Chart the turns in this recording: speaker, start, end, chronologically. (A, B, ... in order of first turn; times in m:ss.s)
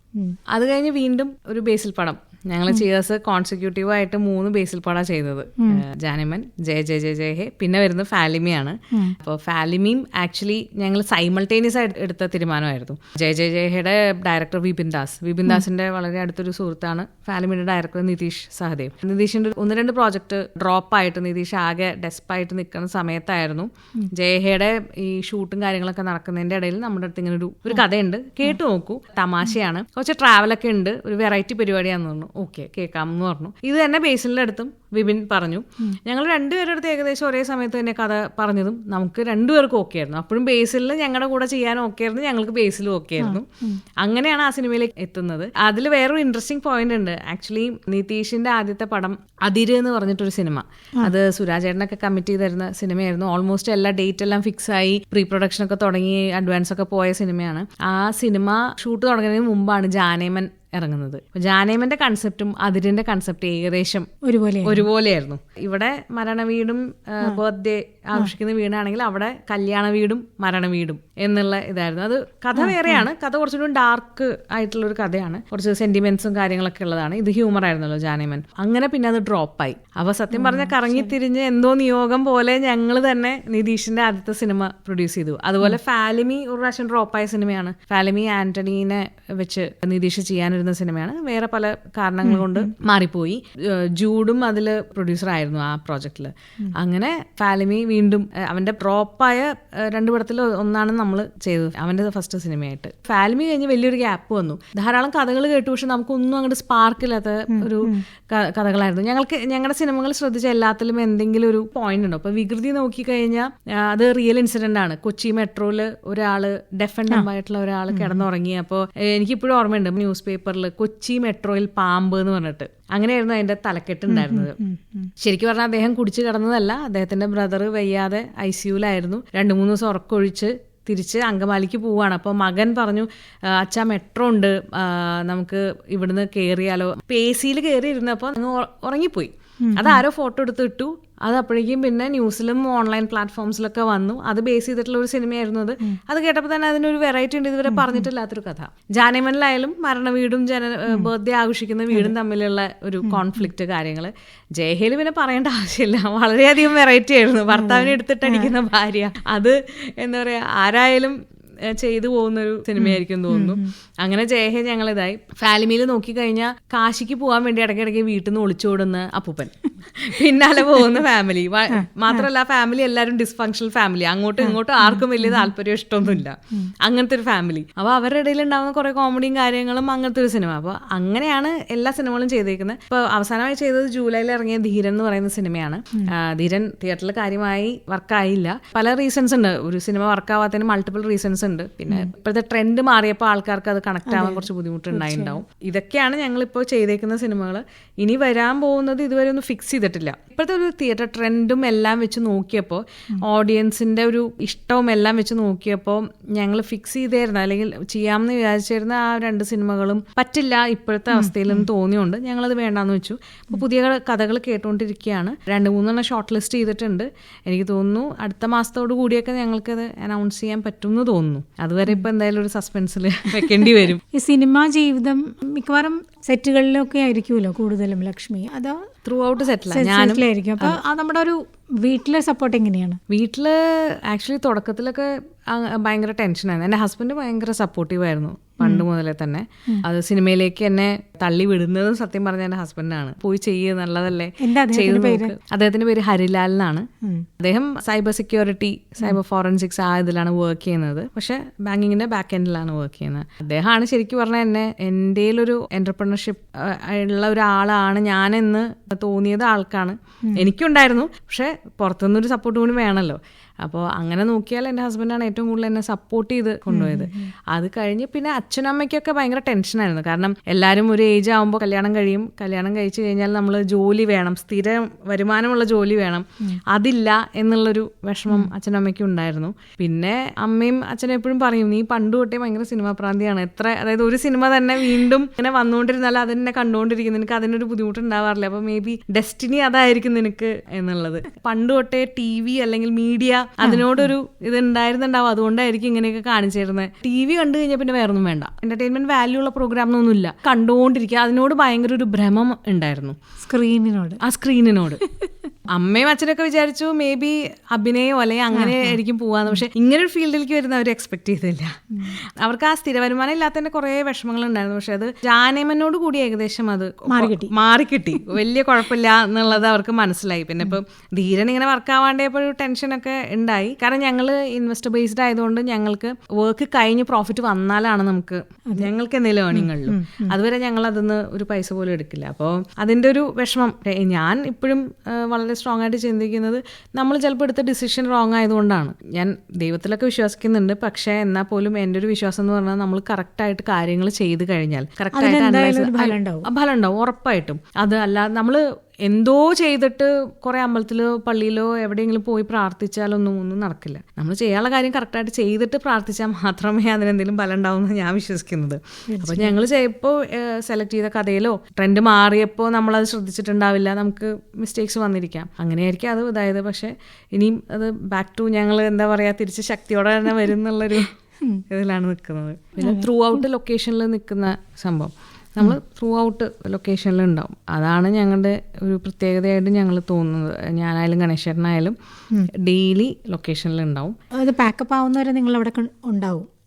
0:00.5-0:43.5 A
0:43.2-0:43.8 B
0:44.0-1:04.1 A
1:04.2-1:04.9 B
1:04.6-2:04.6 A
1:12.6-1:13.1 B
1:20.3-1:21.1 B
1:32.2-1:32.7 B
1:47.5-1:48.0 B
1:57.9-1:58.2 B
2:04.1-2:05.1 B
2:05.2-3:44.0 A
2:19.6-2:20.0 B
2:27.7-2:28.0 B
2:37.5-2:38.5 B
2:42.8-2:43.7 B
2:51.7-2:52.3 B
2:54.4-2:55.5 B
2:56.1-2:56.7 B
3:14.1-3:15.4 B
3:31.1-3:31.7 B
3:43.5-3:48.8 B
3:49.0-3:50.8 A
3:49.7-3:53.0 B
3:53.1-4:06.9 A
3:58.6-3:58.9 B
4:04.4-4:05.4 B
4:07.4-5:03.2 A
4:26.7-4:27.3 B
4:53.6-4:54.1 B
5:03.4-5:04.2 B
5:04.2-5:05.0 A
5:05.0-5:05.3 B
5:05.7-6:11.1 A
5:08.5-5:09.0 B
5:17.1-5:17.5 B
5:29.5-5:30.3 B
5:45.1-5:46.5 B
5:59.1-5:59.6 B
6:11.7-6:24.2 A
6:12.8-6:13.4 B
6:24.3-6:26.5 B